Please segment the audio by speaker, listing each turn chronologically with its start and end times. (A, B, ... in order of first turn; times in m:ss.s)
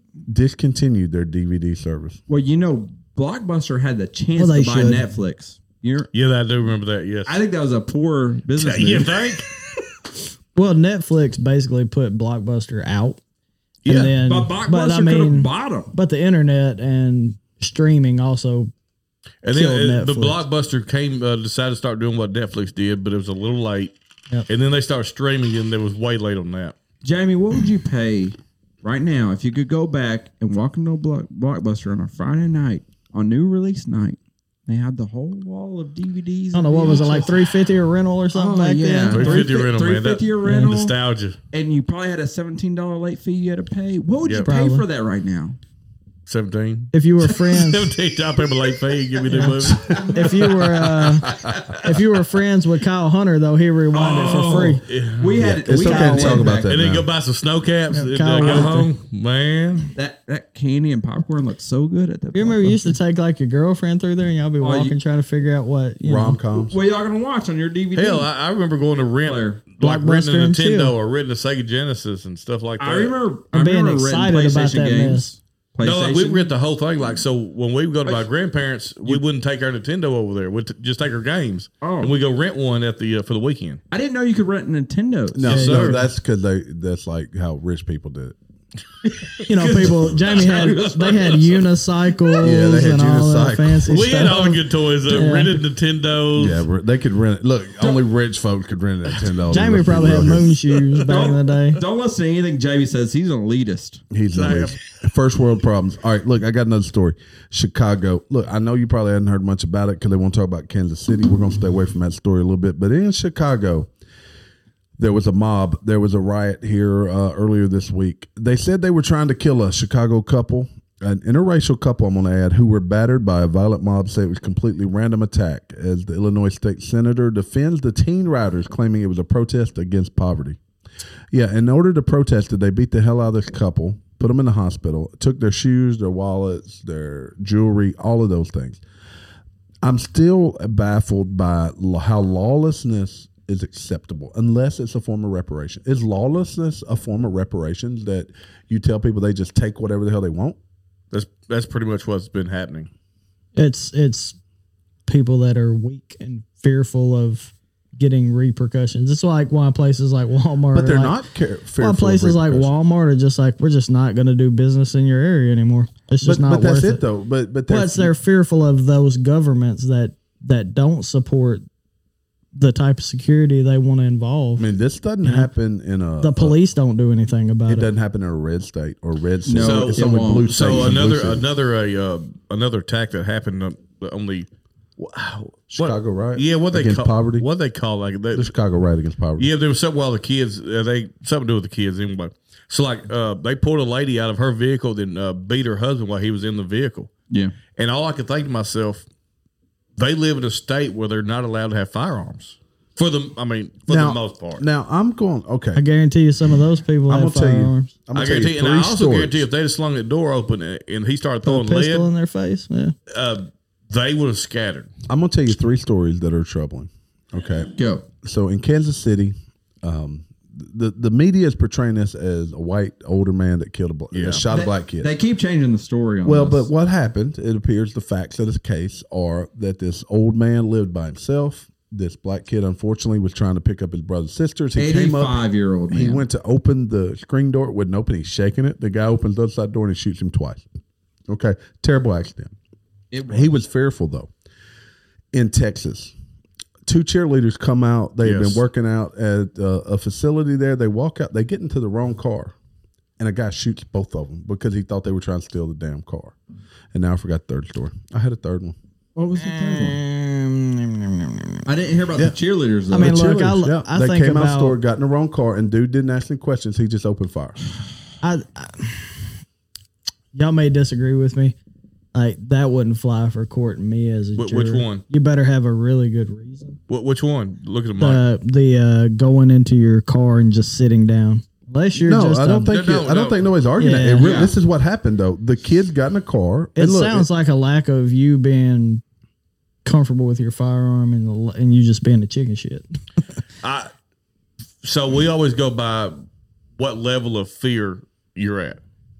0:00.3-0:02.2 A
0:02.3-0:06.1 B
0:04.4-0:05.0 C
0:06.1-0:07.4 D
0:07.2-0:09.2 B
0:08.6-0:09.5 D
0:10.5-0:13.2 C
0:13.8-0:14.1 D
0:13.8-0:18.7 C
0:14.2-0:15.9 B
0:19.4-0:23.9 D
0:19.5-0:20.4 C
0:24.5-0:26.7 D
0:27.0-0:37.5 B
0:36.5-0:39.5 C
0:38.3-0:40.9 B
0:39.1-0:41.4 D
0:40.4-0:40.7 C
0:41.5-0:45.6 B
0:44.2-0:44.5 D
0:44.4-0:44.8 C
0:46.3-0:51.8 D
0:46.9-0:47.9 C
0:49.3-0:54.8 C
0:53.9-0:56.7 B
0:54.8-0:55.5 D
0:55.4-0:57.1 A
0:55.8-0:56.4 C
0:56.4-0:59.9 D
0:57.9-0:58.9 C
0:58.4-0:58.8 B
0:59.9-1:02.9 B
1:02.3-1:06.4 C
1:04.6-1:04.9 B
1:06.0-1:06.8 A
1:06.6-1:08.3 B
1:07.9-1:13.2 D
1:09.2-1:09.6 B
1:09.8-1:10.9 C
1:12.8-1:16.5 B
1:13.5-1:15.4 C
1:15.8-1:23.8 D
1:21.8-1:22.1 B
1:23.9-1:25.9 B
1:25.3-1:28.4 A
1:25.4-1:26.0 D
1:25.5-1:26.0 C
1:29.5-1:35.6 C
1:29.5-1:31.6 B
1:29.6-1:31.5 D
1:32.4-1:34.1 A
1:33.9-1:36.6 D
1:36.3-1:40.6 A
1:39.5-1:41.8 C
1:41.0-1:44.0 B
1:44.1-1:53.9 A
1:44.3-1:44.8 D
1:55.0-2:10.6 A
2:11.3-2:18.8 A
2:19.8-2:30.6 A
2:31.1-2:32.9 D
2:33.6-2:34.4 C
2:35.1-2:41.2 C
2:40.7-2:42.7 A
2:41.8-2:47.0 C
2:46.2-2:48.1 A
2:47.7-2:51.6 C
2:52.5-2:54.7 C
2:54.6-2:56.6 A
2:55.2-2:55.5 C
2:56.2-2:57.9 C
2:57.7-3:01.4 A
2:59.4-3:00.9 B
2:59.6-3:08.5 D
3:05.7-3:07.5 A
3:08.3-3:09.5 A
3:09.4-3:17.1 D
3:17.8-3:19.0 D
3:20.0-3:24.6 D
3:23.9-3:25.8 A
3:25.7-3:27.9 C
3:27.1-3:29.4 A
3:28.1-3:32.1 D
3:31.4-3:32.9 C
3:33.1-3:34.9 D
3:35.1-3:37.7 A
3:37.8-3:38.0 B
3:38.2-3:45.1 A
3:44.1-3:44.4 D
3:44.5-3:46.7 B
3:46.2-4:00.7 A
3:54.8-3:56.2 B
4:01.3-4:02.5 A
4:03.1-4:03.5 B
4:03.3-4:04.3 A
4:05.3-4:06.1 A
4:06.8-4:12.5 A
4:08.2-4:08.6 D
4:13.2-4:16.3 A
4:16.9-4:18.8 A
4:19.2-4:20.0 B
4:19.4-4:21.6 C
4:21.6-4:23.2 B
4:22.9-4:24.8 C
4:22.9-4:27.6 A
4:28.2-4:29.1 C
4:30.3-4:31.6 C
4:32.1-4:36.8 C
4:34.4-4:35.0 D
4:36.9-4:38.2 D
4:38.0-4:42.7 C
4:42.0-4:47.3 A
4:42.7-4:43.4 D
4:43.8-4:44.4 C
4:44.2-4:44.5 B
4:46.8-4:49.0 C
4:49.8-4:52.8 C
4:53.6-4:53.9 D
4:54.8-4:56.2 D
4:56.8-4:58.8 D